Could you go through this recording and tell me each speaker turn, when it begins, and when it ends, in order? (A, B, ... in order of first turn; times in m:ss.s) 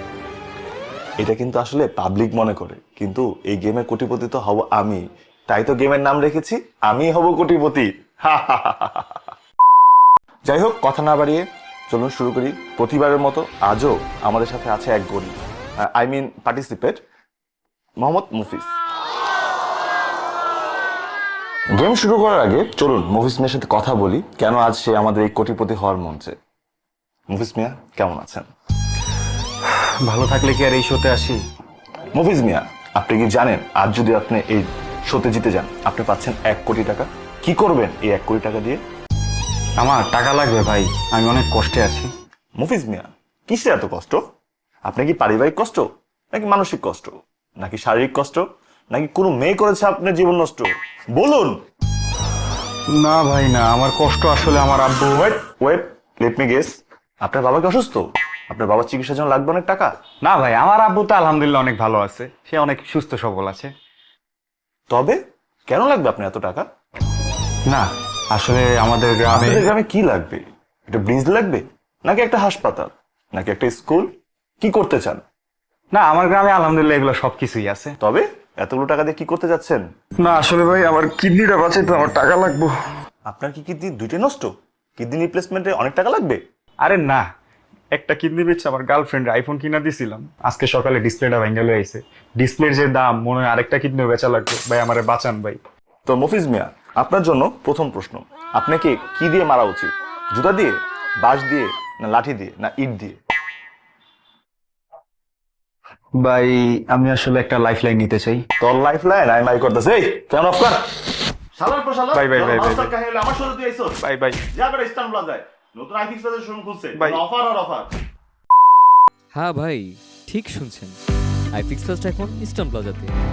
0:01.2-0:09.2 A
0:10.4-0:17.0 A
0:18.0-0:18.7 A
0:21.7-0:26.3 A
0:27.3-0:28.4 A
0:30.0-0:31.4 B
0:32.1-0:38.8 A
0:39.8-0:42.1 B
0:42.6-0:44.2 A
0:44.9-0:51.6 A
0:52.9-0:55.4 B
0:55.4-0:59.9 A
1:00.2-1:03.7 B
1:04.9-1:06.6 A
1:07.7-1:09.7 B
1:09.3-1:15.2 A
1:15.9-1:17.9 B
1:18.0-1:19.8 A
1:20.2-1:22.7 B
1:23.3-1:26.4 A
1:26.8-1:27.2 B
1:27.9-1:35.6 B
1:36.0-1:43.2 A
1:46.2-1:48.4 B
1:48.6-1:50.8 A
1:51.6-1:54.0 A
1:52.1-1:52.9 B
1:54.0-1:54.4 B
1:54.5-1:57.9 A
1:56.9-1:57.2 B
1:59.3-2:01.0 C
2:01.5-2:03.1 C